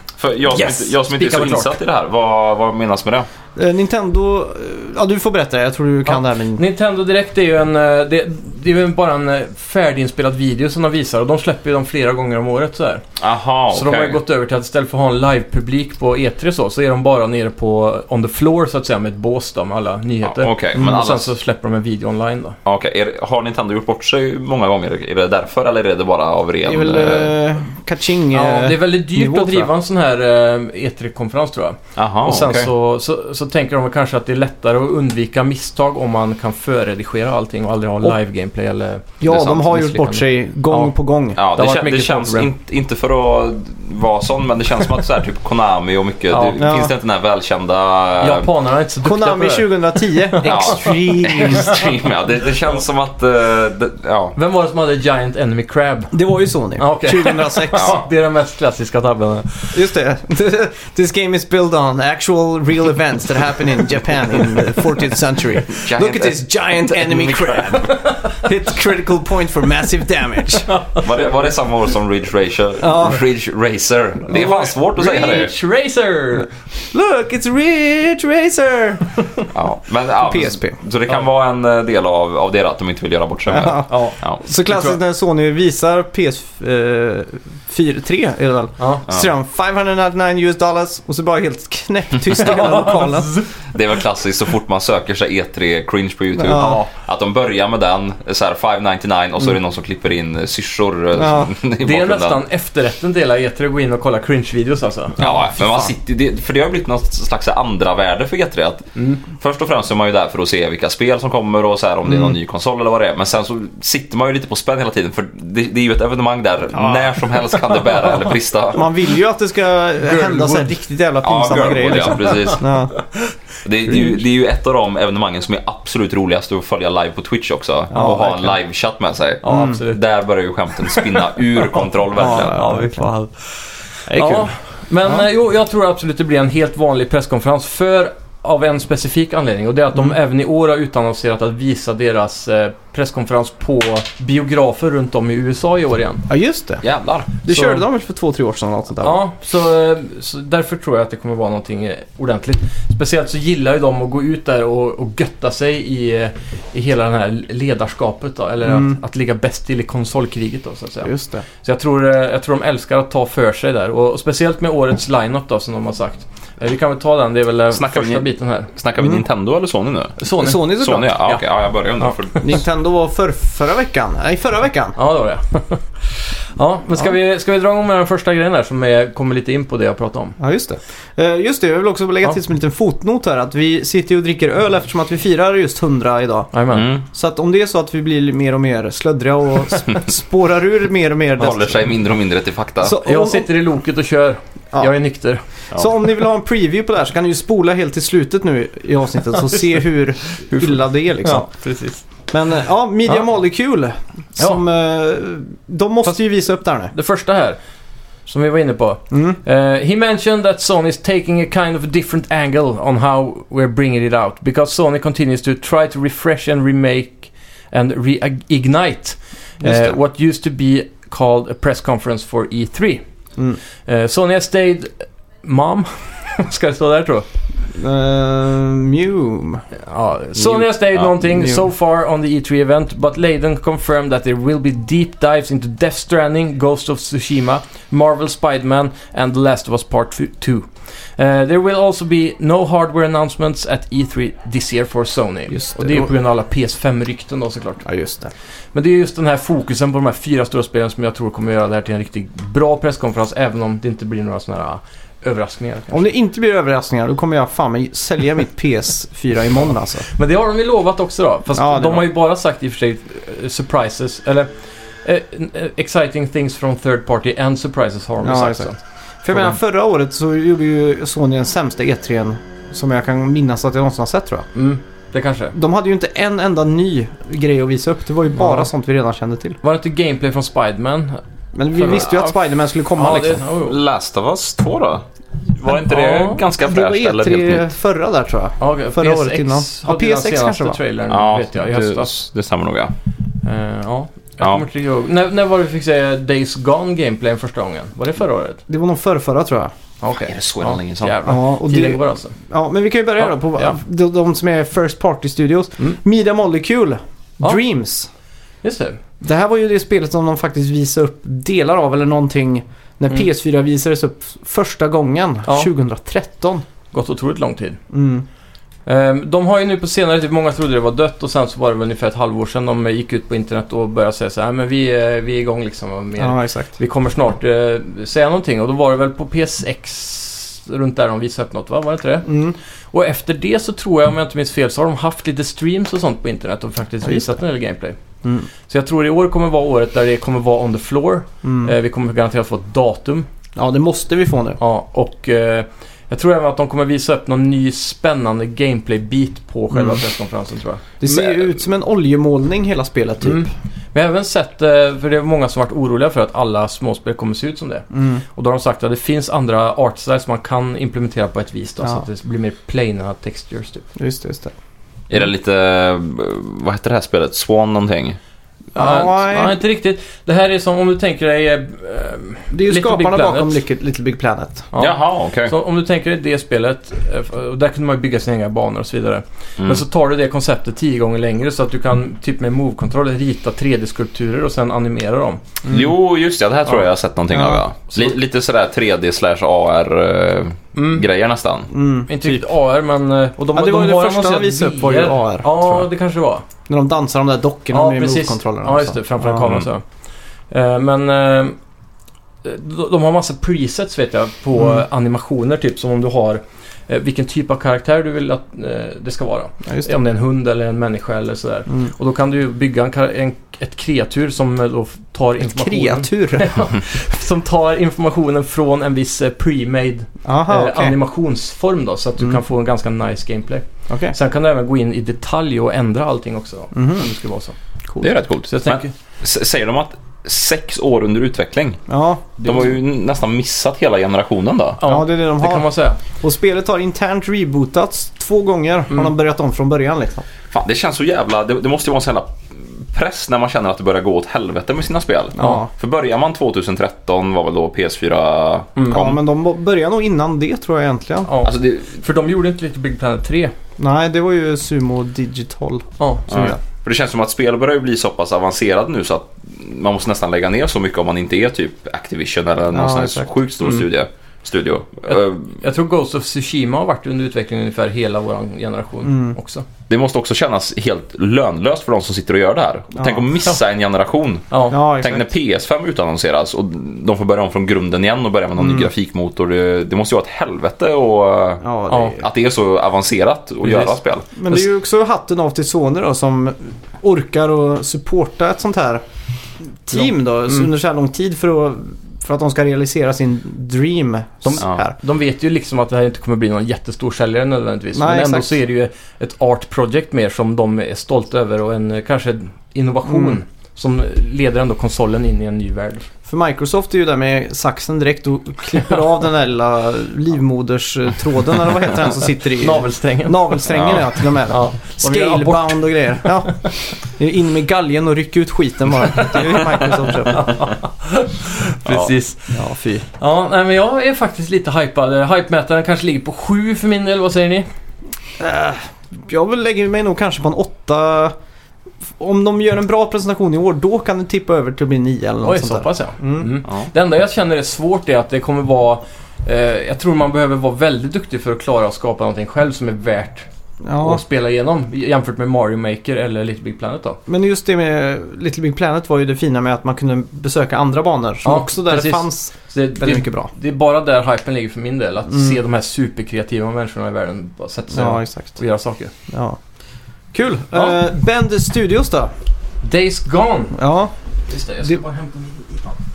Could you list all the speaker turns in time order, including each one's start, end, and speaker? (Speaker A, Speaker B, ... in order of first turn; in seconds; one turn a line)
Speaker A: 0.2-3.3
Speaker B: 0.5-1.7
Speaker C: 3.6-6.6
Speaker B: 6.1-13.0
Speaker A: 13.2-14.2
Speaker B: 13.7-22.6
Speaker A: 20.2-21.3
Speaker A: 22.6-27.3
Speaker C: 26.6-29.7
Speaker B: 28.3-40.9
Speaker A: 32.0-32.7
Speaker C: 39.2-41.4
Speaker A: 39.3-39.7
Speaker A: 41.4-48.5
Speaker B: 41.5-42.5
Speaker B: 46.3-46.6
Speaker C: 46.6-46.9
Speaker B: 48.2-51.0
Speaker C: 49.0-51.8
Speaker A: 50.4-54.4
Speaker B: 54.4-56.2
Speaker C: 56.1-58.0
Speaker B: 56.8-59.8
Speaker C: 59.7-70.7
Speaker A: 65.7-67.8
Speaker B: 67.8-68.4
Speaker B: 70.6-71.1
Speaker A: 71.0-75.5
Speaker C: 72.8-73.2
Speaker B: 74.3-76.5
Speaker C: 76.9-79.2
Speaker A: 79.5-84.4
Speaker C: 80.2-80.8
Speaker C: 83.5-93.4
Speaker B: 83.9-85.0
Speaker B: 88.8-89.0
Speaker B: 92.4-93.5
Speaker A: 93.7-102.4
Speaker C: 96.4-96.8
Speaker B: 96.5-96.9
Speaker C: 101.2-101.5
Speaker B: 101.8-105.3
Speaker A: 105.2-118.9
Speaker B: 109.0-109.2
Speaker C: 112.0-112.4
Speaker C: 116.8-117.1
Speaker C: 118.7-123.0
Speaker B: 120.0-120.7
Speaker A: 121.2-122.7
Speaker B: 122.2-122.6
Speaker A: 123.6-132.6
Speaker C: 127.9-128.5
Speaker B: 129.4-130.0
Speaker C: 129.5-129.8
Speaker B: 130.9-133.5
Speaker C: 132.2-133.1
Speaker C: 134.1-134.5
Speaker B: 134.1-146.2
Speaker C: 146.3-146.8
Speaker A: 146.8-147.3
Speaker C: 147.4-149.2
Speaker B: 147.5-147.8
Speaker B: 149.0-168.7
Speaker C: 158.6-159.0
Speaker C: 161.0-161.4
Speaker A: 167.7-172.6
Speaker C: 169.0-169.2
Speaker B: 170.2-171.4
Speaker C: 170.4-171.1
Speaker C: 172.4-175.0
Speaker B: 175.0-180.4
Speaker C: 180.4-186.5
Speaker B: 186.5-186.9
Speaker A: 186.7-187.0
Speaker C: 187.1-191.8
Speaker A: 191.4-193.0
Speaker C: 192.8-193.5
Speaker B: 193.0-195.4
Speaker C: 195.7-201.5
Speaker B: 200.5-202.1
Speaker C: 202.3-206.9
Speaker B: 206.9-207.6
Speaker B: 208.2-223.0
Speaker C: 209.1-209.4
Speaker C: 219.6-219.9
Speaker B: 223.9-227.2
Speaker C: 227.7-229.6
Speaker B: 229.8-247.8
Speaker C: 231.3-231.6
Speaker C: 245.5-246.1
Speaker C: 247.8-248.3
Speaker B: 248.7-256.1
Speaker C: 255.9-260.1
Speaker B: 260.1-264.5
Speaker C: 261.5-262.1
Speaker B: 265.1-268.8
Speaker C: 268.2-268.7
Speaker C: 269.2-274.5
Speaker B: 274.6-275.6
Speaker C: 275.5-279.6
Speaker B: 278.4-278.7
Speaker B: 279.6-281.2
Speaker C: 281.5-283.4
Speaker B: 281.7-282.3
Speaker B: 283.0-283.8
Speaker A: 283.6-287.6
Speaker B: 285.7-286.4
Speaker C: 286.6-290.8
Speaker B: 288.6-292.1
Speaker A: 291.1-292.9
Speaker B: 293.4-298.6
Speaker A: 294.4-294.6
Speaker C: 298.7-299.7
Speaker B: 300.0-302.4
Speaker A: 300.2-301.2
Speaker C: 301.2-308.1
Speaker B: 308.6-309.0
Speaker C: 309.2-316.6
Speaker B: 316.9-317.8
Speaker C: 317.9-318.2
Speaker B: 318.9-332.3
Speaker C: 326.2-326.7
Speaker C: 332.2-332.6
Speaker B: 332.9-338.0
Speaker C: 337.0-337.4
Speaker B: 338.7-343.2
Speaker C: 341.4-341.7
Speaker C: 343.6-344.6
Speaker B: 344.6-350.8
Speaker C: 349.7-350.0
Speaker C: 351.0-353.5
Speaker B: 353.2-363.9
Speaker C: 357.9-358.2
Speaker C: 364.0-364.5
Speaker A: 365.1-368.2
Speaker C: 368.8-369.6
Speaker B: 368.8-373.6
Speaker C: 372.5-374.7
Speaker B: 374.7-385.4
Speaker A: 374.8-375.5
Speaker A: 385.7-391.7
Speaker C: 387.3-387.6
Speaker B: 390.8-391.1
Speaker C: 391.7-392.4
Speaker B: 392.1-396.4
Speaker C: 393.5-395.9
Speaker C: 396.7-399.5
Speaker B: 397.7-399.8
Speaker B: 400.5-401.6
Speaker B: 402.4-427.6
Speaker C: 415.4-416.5
Speaker C: 420.2-421.0
Speaker C: 423.9-424.1
Speaker C: 426.7-427.1
Speaker A: 428.0-431.8
Speaker B: 428.5-428.9
Speaker C: 431.9-432.4
Speaker A: 432.4-434.8
Speaker B: 434.8-436.0
Speaker C: 434.8-440.2
Speaker A: 440.5-449.2
Speaker C: 445.4-445.7
Speaker B: 448.8-449.0
Speaker C: 448.9-451.3
Speaker B: 451.2-453.5
Speaker A: 451.4-452.0
Speaker C: 453.8-456.6
Speaker B: 456.0-456.3
Speaker A: 456.3-465.6
Speaker C: 462.7-463.3
Speaker B: 465.1-469.6
Speaker C: 469.1-469.4
Speaker A: 469.9-481.6
Speaker C: 473.0-473.2
Speaker B: 474.5-474.8
Speaker C: 474.7-475.3
Speaker C: 478.6-478.9
Speaker C: 481.6-482.3
Speaker B: 481.9-482.2
Speaker A: 482.2-484.4
Speaker B: 483.6-483.9
Speaker C: 484.4-489.0
Speaker C: 489.6-495.0
Speaker B: 494.4-506.1
Speaker C: 497.9-498.5
Speaker C: 503.1-503.4
Speaker C: 506.3-520.5
Speaker B: 512.6-513.7
Speaker A: 513.7-514.2
Speaker B: 514.5-516.7
Speaker B: 520.2-527.7
Speaker A: 521.9-522.1
Speaker C: 522.5-523.0
Speaker C: 528.4-531.4
Speaker C: 532.2-536.5
Speaker B: 535.4-547.2
Speaker C: 543.8-544.2
Speaker C: 547.3-553.5
Speaker B: 551.4-559.1
Speaker C: 555.3-555.5
Speaker C: 557.9-558.6
Speaker C: 559.3-559.6
Speaker C: 560.3-562.3
Speaker B: 560.7-561.0
Speaker B: 562.8-563.8
Speaker C: 563.8-564.1
Speaker B: 564.5-565.9